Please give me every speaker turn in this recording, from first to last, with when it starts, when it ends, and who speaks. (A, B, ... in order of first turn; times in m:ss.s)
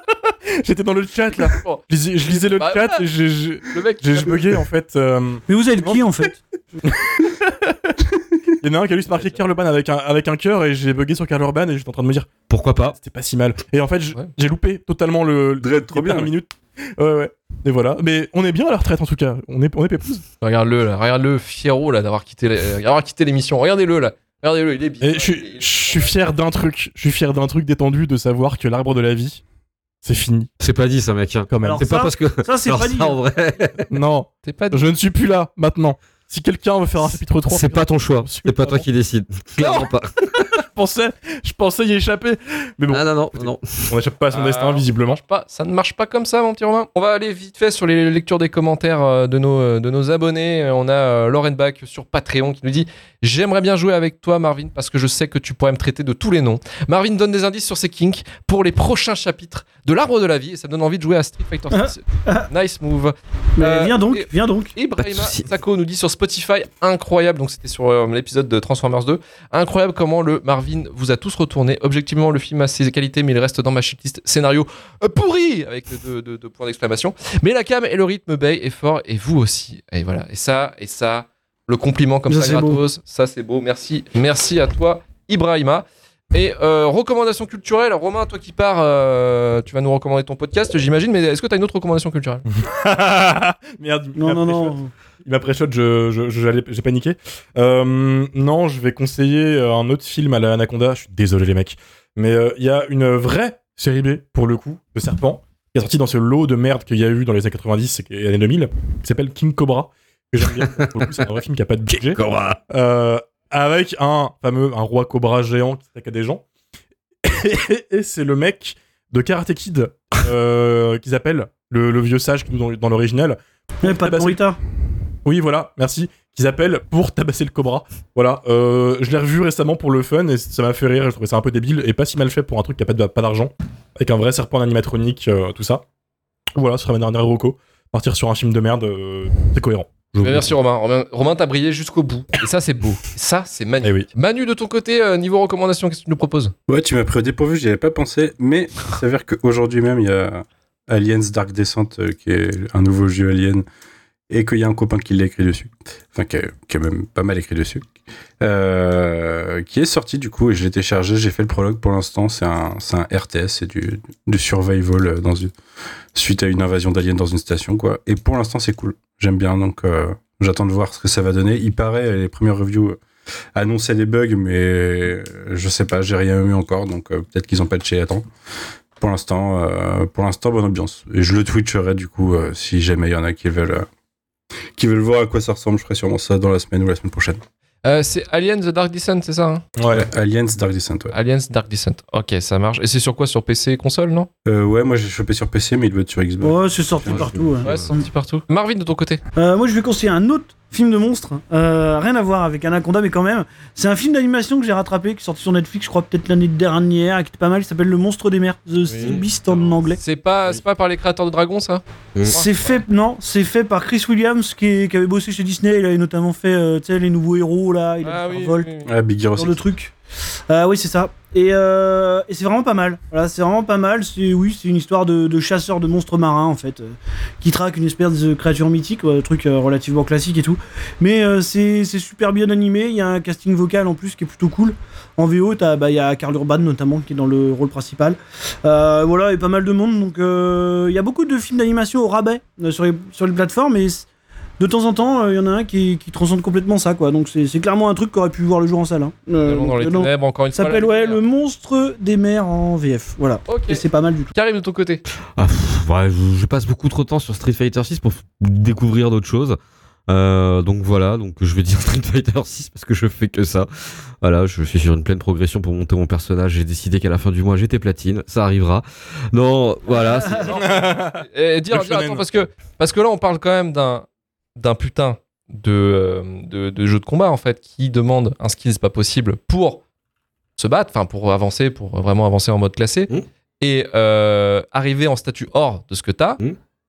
0:00.6-0:06.1 A
0:01.4-0:03.0 B
0:03.7-0:04.4 B
0:05.5-0:06.4 C
0:06.9-0:08.1 A
0:08.6-0:12.3 A
0:12.5-0:13.0 D
0:13.0-0:20.2 A
0:15.6-0:16.3 E
0:20.4-0:26.2 B
0:25.0-0:29.4 A
0:30.0-0:30.5 A
0:30.6-0:33.9 D
0:31.5-0:31.9 A
0:31.6-0:33.2 C
0:33.9-0:38.8 A
0:34.4-0:34.9 B
0:37.5-0:40.4 D
0:39.6-0:39.9 A
0:40.4-0:45.2 A
0:42.9-0:44.0 D
0:44.3-1:32.4 B
1:01.7-1:02.5 C
1:03.6-1:04.7 C
1:05.0-1:05.5 D
1:22.3-1:22.8 C
1:32.5-1:52.2 A
1:34.2-1:34.9 C
1:50.4-1:51.2 D
1:51.9-1:52.6 D
1:52.7-1:56.4 A
1:57.2-2:04.4 A
2:03.8-2:04.6 C
2:05.2-2:15.8 A
2:16.6-2:20.5 A
2:20.2-2:26.5 B
2:23.8-2:24.1 A
2:26.7-2:33.6 E
2:34.3-2:37.8 E
2:38.4-2:45.5 E
2:46.1-2:53.0 E
2:53.5-2:58.2 E
2:59.0-3:03.9 E
3:04.8-3:07.4 E
3:07.8-3:09.6 B
3:09.8-3:10.1 A
3:09.9-3:11.1 E
3:11.1-3:14.3 B
3:14.4-3:17.5 E
3:16.4-3:18.0 C
3:17.0-3:17.9 D
3:17.6-3:19.2 B
3:19.4-3:30.0 C
3:28.9-3:32.8 B
3:32.1-3:32.4 D
3:32.3-3:38.7 C
3:38.0-3:38.9 B
3:38.9-3:39.6 E
3:39.4-3:39.9 C
3:40.5-4:04.0 C
4:04.6-4:14.3 C
4:09.4-4:11.2 B
4:13.5-4:15.0 B
4:15.4-4:19.6 D
4:20.1-4:23.7 D
4:24.2-4:30.5 D
4:29.9-4:34.0 B
4:30.1-4:30.5 C
4:30.5-4:32.2 A
4:34.6-4:39.8 B
4:40.6-4:46.4 B